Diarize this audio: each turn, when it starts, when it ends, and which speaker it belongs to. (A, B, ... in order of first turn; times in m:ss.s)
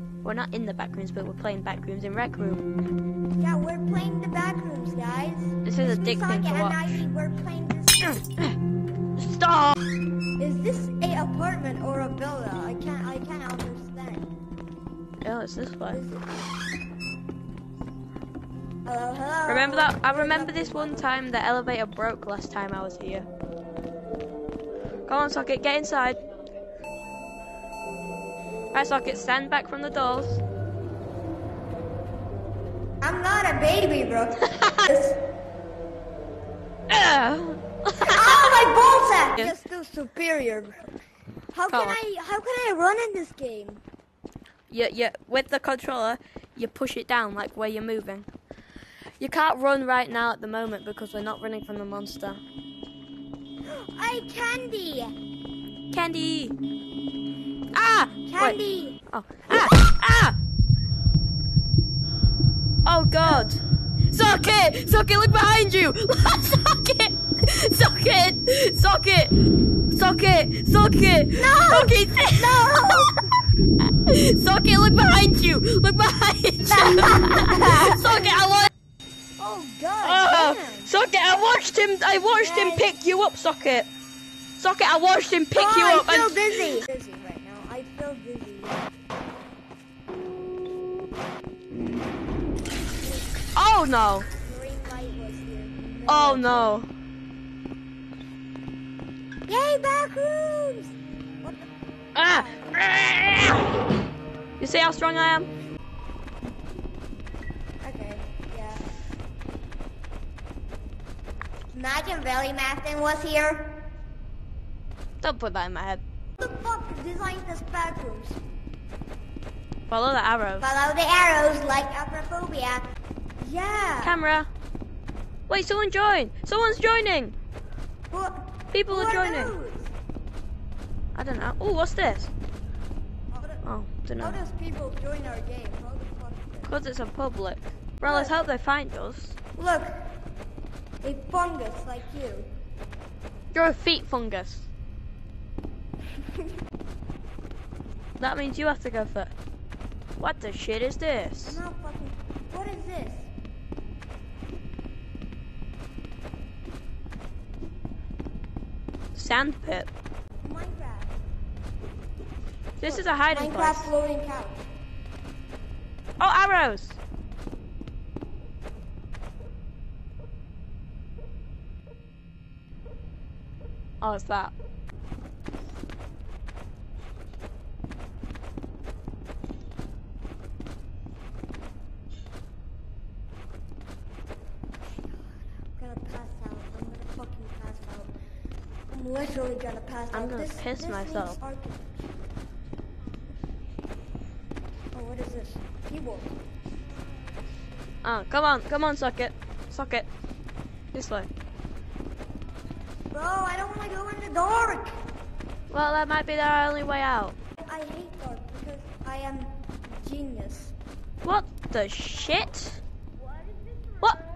0:00.2-0:02.7 A
0:03.4-0:08.2 B
0:05.6-0:07.0 A
0:08.0-0:08.5 A
0:09.2-0:09.8 A
0:10.4-0:14.3 B
0:15.2-0:16.0 A
0:15.9-0:16.3 B
0:18.8-0:21.2 B
0:19.5-0:23.3 A
0:25.1-0:26.2 A
0:28.7-0:30.4 A
0:33.0-0:35.2 B
0:34.5-0:34.9 A
0:36.9-0:38.7 A
0:38.0-0:40.8 B
0:41.5-0:43.8 B
0:41.7-0:42.0 A
0:44.7-0:48.3 A
0:49.2-0:52.4 A
0:53.6-0:55.1 B
0:55.9-0:56.5 A
0:57.7-0:58.6 A
0:58.3-0:59.0 B
0:59.1-1:00.4 A
1:02.8-1:03.6 A
1:03.2-1:03.5 B
1:04.1-1:09.3 A
1:09.9-1:13.1 A
1:11.4-1:13.2 B
1:13.9-1:18.7 A
1:16.6-1:18.3 B
1:19.4-1:20.9 B
1:20.0-1:23.9 A
1:22.3-1:22.9 B
1:24.6-1:26.4 A
1:25.6-1:28.8 B
1:33.6-1:34.3 A
1:34.4-1:36.8 B
1:36.1-1:36.9 A
1:39.5-1:41.7 B
1:42.1-1:43.6 A
1:42.2-1:42.8 B
1:44.6-1:45.5 A
1:47.8-1:48.8 B
1:51.7-1:53.7 B
1:55.2-1:56.0 A
1:56.4-1:58.4 B
1:59.9-2:00.6 A
2:00.6-2:02.8 B
2:03.4-2:04.2 B
2:04.0-2:04.5 A
2:05.5-2:07.3 A
2:08.1-2:09.9 B
2:08.7-2:09.5 A
2:11.1-2:12.3 A
2:13.3-2:13.6 B
2:13.6-2:14.4 A
2:14.2-2:16.7 B
2:16.6-2:19.4 A
2:18.0-2:18.4 B
2:19.6-2:19.9 B
2:21.0-2:22.5 B
2:23.5-2:24.7 A
2:28.2-2:29.3 A
2:30.2-2:31.6 A
2:31.4-2:33.3 B
2:39.1-2:39.9 A
2:40.4-2:41.1 B
2:42.8-2:43.9 A
2:42.8-2:44.6 B
2:46.2-2:47.0 A
2:54.0-2:54.5 A
3:05.7-3:08.1 B
3:08.9-3:11.9 B
3:10.1-3:11.4 A
3:14.9-3:16.4 B
3:18.0-3:20.1 A
3:20.9-3:21.3 A
3:23.1-3:24.9 B
3:25.7-3:27.3 A
3:27.6-3:30.7 B
3:31.2-3:32.8 A